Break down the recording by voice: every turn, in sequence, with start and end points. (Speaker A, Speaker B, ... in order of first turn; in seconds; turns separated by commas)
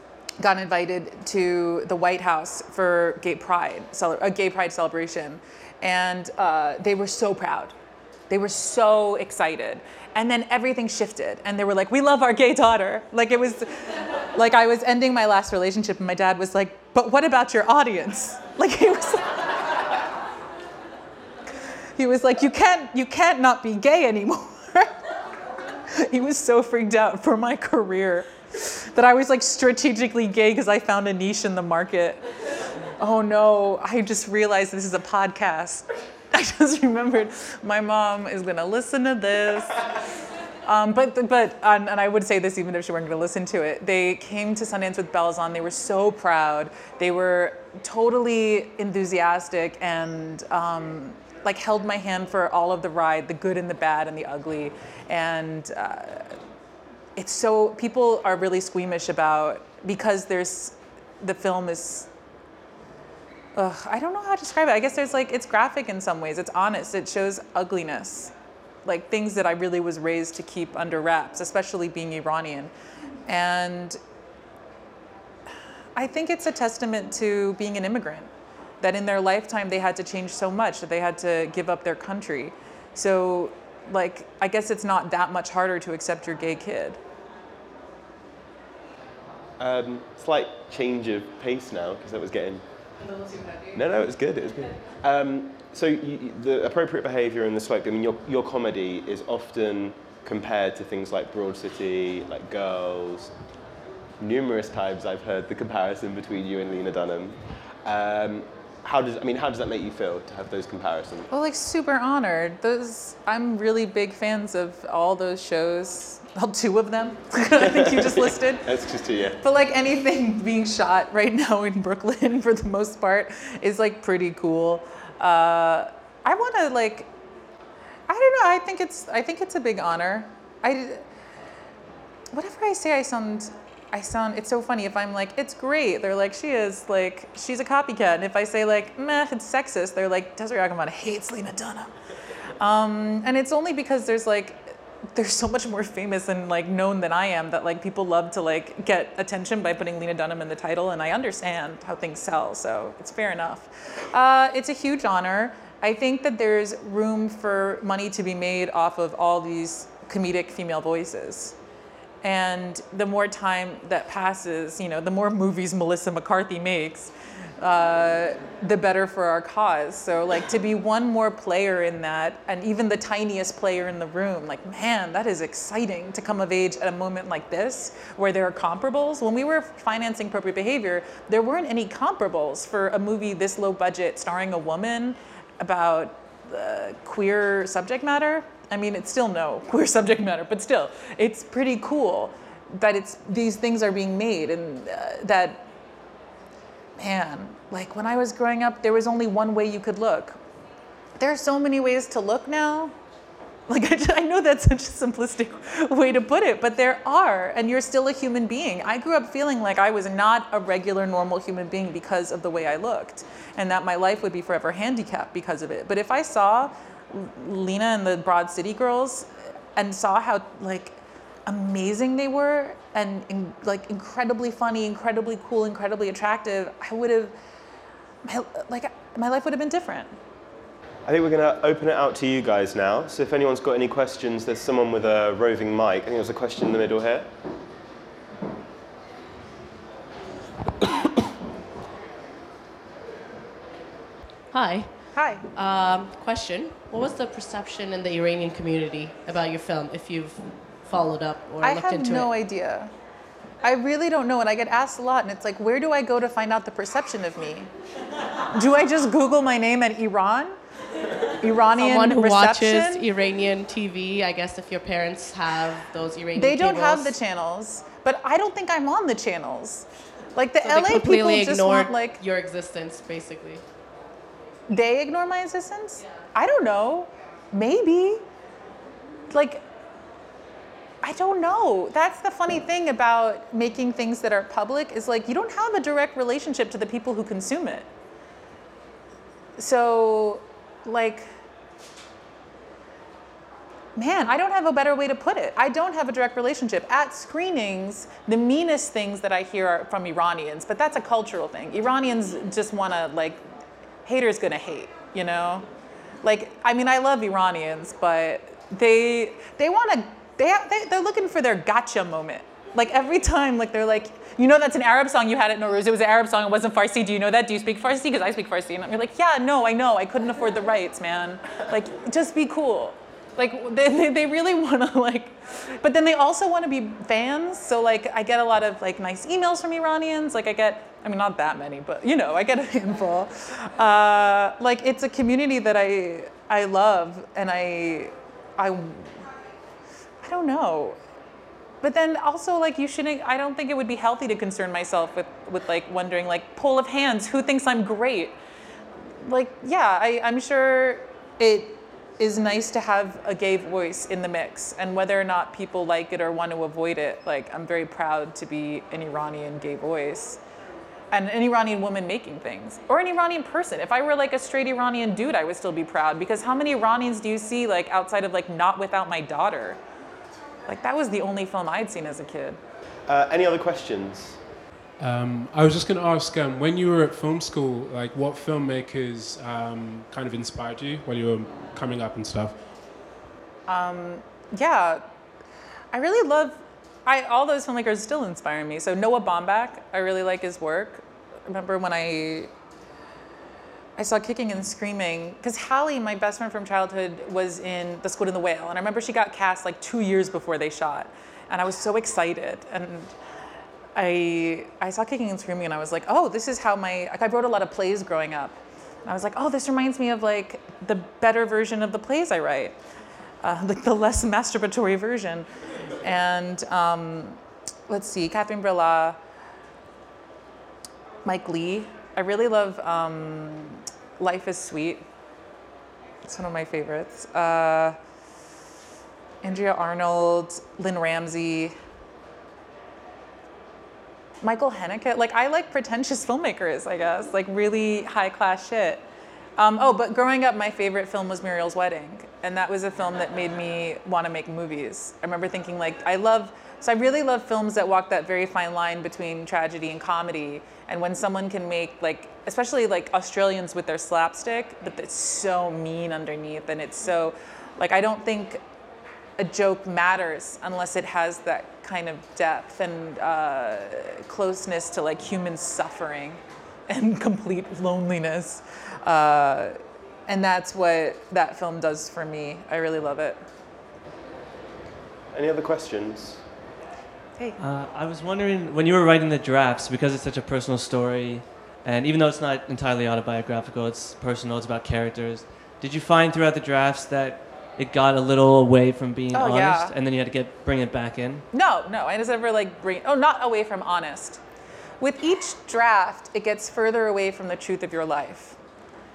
Speaker A: 0.4-7.7, Speaker A: 8.3-13.7, Speaker A: 14.3-19.4, Speaker A: 22.0-25.0, Speaker A: 25.9-32.2, Speaker A: 33.0-39.8, Speaker A: 40.6-56.3, Speaker A: 57.1-62.1, Speaker A: 63.5-68.3, Speaker A: 68.8-72.7, Speaker A: 73.3-74.0, Speaker A: 76.0-78.3, Speaker A: 78.8-87.0, Speaker B: 89.6-92.6, Speaker B: 93.7-103.3, Speaker B: 104.2-111.3, Speaker A: 111.3-118.7, Speaker B: 117.6-119.4, Speaker A: 119.4-127.1, Speaker A: 128.1-131.0, Speaker A: 132.3-141.9, Speaker A: 142.6-161.5, Speaker A: 162.2-195.7, Speaker A: 197.0-200.4, Speaker A: 201.2-202.9, Speaker A: 203.7-227.3, Speaker A: 228.2-230.2, Speaker B: 231.1-237.3, Speaker C: 244.5-252.3, Speaker A: 245.1-245.4, Speaker A: 251.6-252.9, Speaker A: 253.6-257.7, Speaker A: 258.5-260.6, Speaker A: 261.4-263.0, Speaker C: 261.8-267.2, Speaker A: 266.3-272.2, Speaker C: 270.6-273.6, Speaker A: 274.7-278.2, Speaker A: 279.3-279.6, Speaker A: 281.0-287.9, Speaker A: 289.6-291.3, Speaker A: 293.9-303.4, Speaker A: 304.0-305.6, Speaker A: 306.2-339.2, Speaker A: 340.2-341.0, Speaker A: 341.8-348.4, Speaker A: 349.2-360.4, Speaker A: 361.1-369.8, Speaker A: 370.7-372.6, Speaker B: 373.1-374.4, Speaker D: 375.0-382.6, Speaker A: 383.7-385.0, Speaker A: 385.9-392.5, Speaker A: 394.0-403.1, Speaker A: 403.9-412.8, Speaker A: 413.4-415.5, Speaker A: 416.0-419.2, Speaker A: 421.2-425.0, Speaker A: 426.2-427.9, Speaker A: 429.4-431.7, Speaker A: 434.4-439.0, Speaker A: 439.6-458.6, Speaker A: 459.4-473.4, Speaker B: 475.3-476.4, Speaker E: 477.6-491.4, Speaker A: 489.3-489.9, Speaker A: 491.5-494.4, Speaker A: 495.0-498.6